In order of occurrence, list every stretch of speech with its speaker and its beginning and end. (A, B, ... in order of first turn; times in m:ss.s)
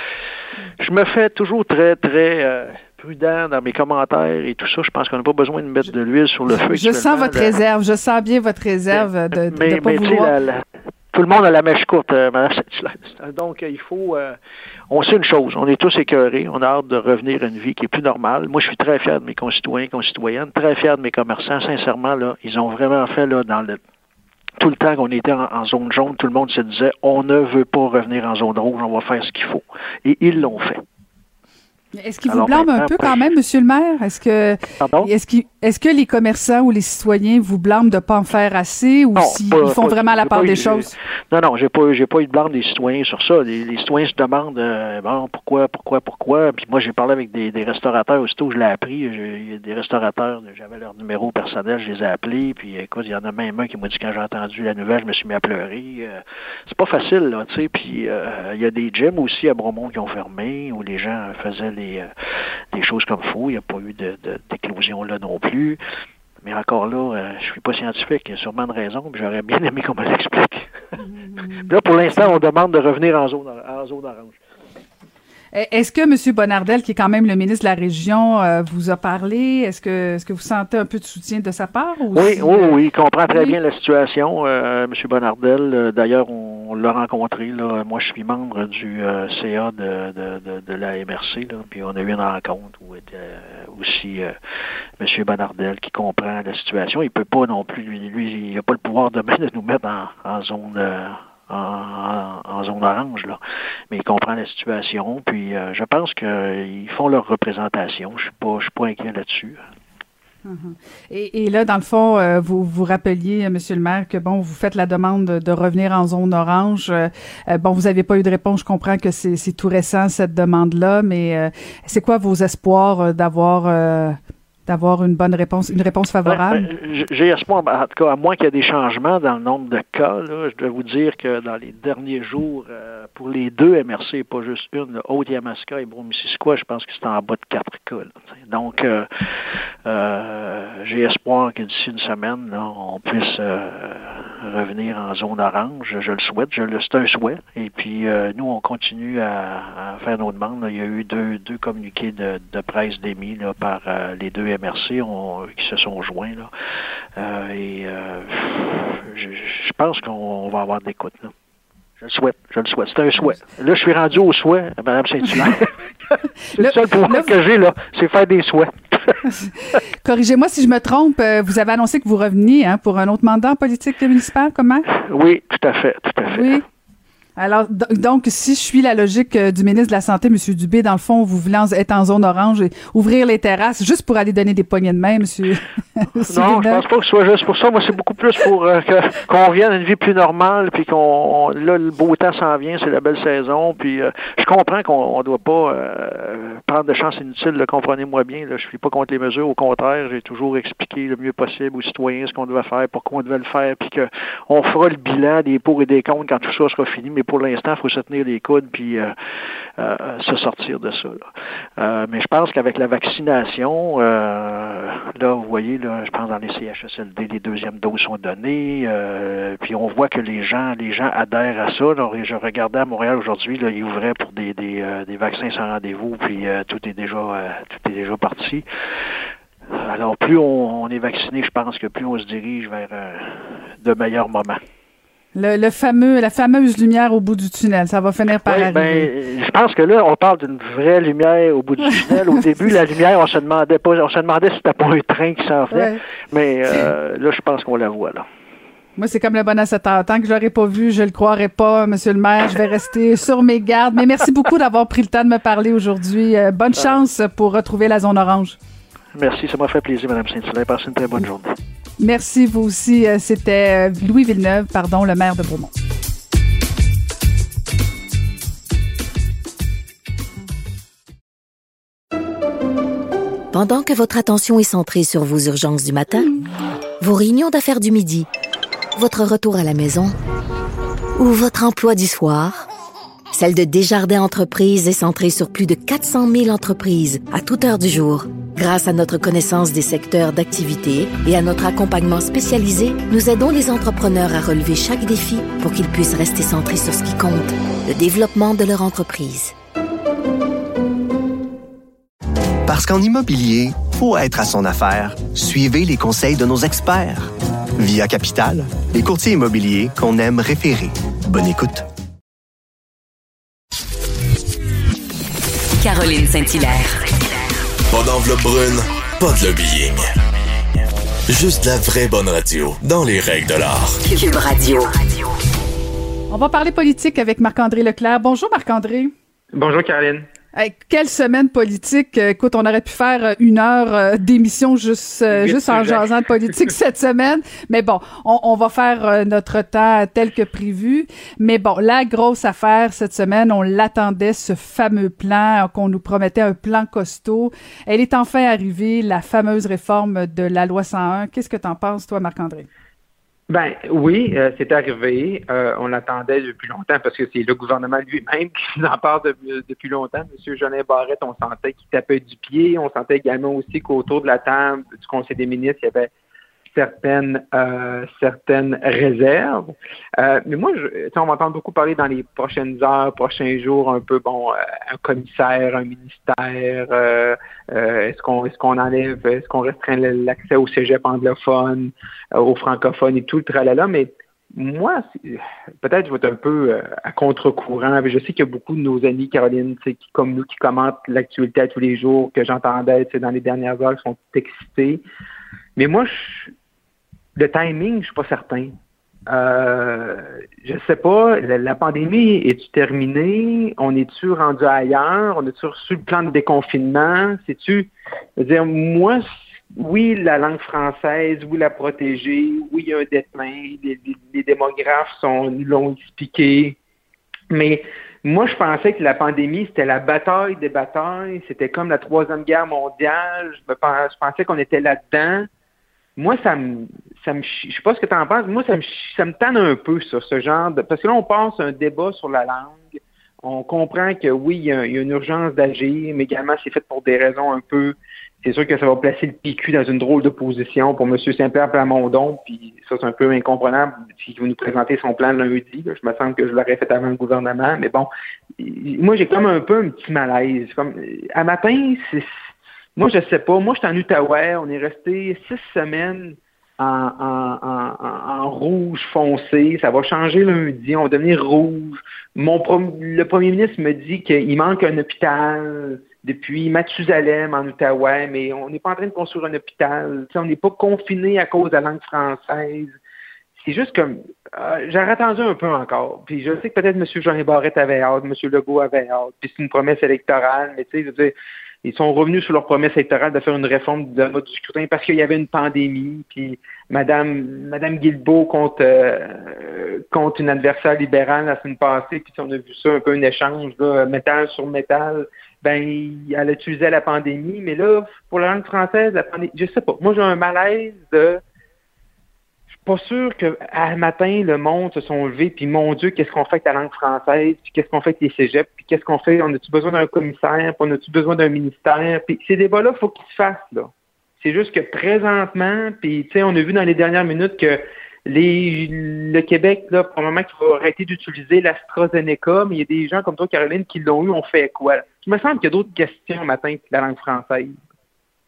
0:00.8-0:07.6 A
0:06.5-0:10.3 B
0:08.9-0:14.4 A
0:14.9-0:23.8 A
0:24.6-0:30.8 A
0:32.0-0:40.9 B
0:32.3-0:33.3 A
0:34.8-0:35.1 A
0:39.1-1:02.1 A
1:02.7-1:05.8 A
1:06.4-1:10.8 A
1:11.0-1:12.2 B
1:11.6-1:14.4 A
1:15.5-1:22.8 B
1:22.1-1:34.3 A
1:23.3-1:23.6 B
1:35.0-1:43.4 A
1:43.9-1:49.6 A
1:50.4-2:06.7 B
2:06.2-2:19.1 A
2:19.9-2:36.5 A
2:37.2-2:41.3 A
2:42.0-2:49.2 A
2:46.6-2:47.3 B
2:50.0-2:54.9 B
2:54.9-2:56.6 A
2:56.3-2:56.6 B
2:57.4-3:06.8 B
3:06.2-3:29.1 A
3:29.8-3:31.2 A
3:31.8-3:48.7 A
3:49.7-3:54.6 A
3:55.4-3:59.1 B
3:58.4-4:08.3 A
4:05.7-4:06.0 B
4:09.0-4:18.6 B
4:19.1-4:21.6 A
4:22.0-4:25.7 B
4:33.5-4:36.3 C
4:37.0-4:38.3 C
4:39.0-4:40.2 C
4:41.2-4:42.7 C
4:43.3-4:59.5 C
5:02.7-5:11.9 D
5:15.8-5:17.1 E
5:17.9-5:20.1 F
5:21.3-5:24.0 F
5:24.0-5:25.3 E
5:26.3-5:29.1 B
5:29.5-5:30.3 G
5:30.6-5:52.7 B
5:35.3-5:36.1 G
5:53.5-6:06.1 G
6:06.7-6:35.0 G
6:35.8-6:36.5 G
6:37.4-6:38.7 G
6:39.3-6:56.8 G
6:57.5-7:05.5 G
7:06.2-7:32.3 G
7:33.0-7:53.0 G
7:53.6-8:21.4 G
8:22.7-8:47.8 G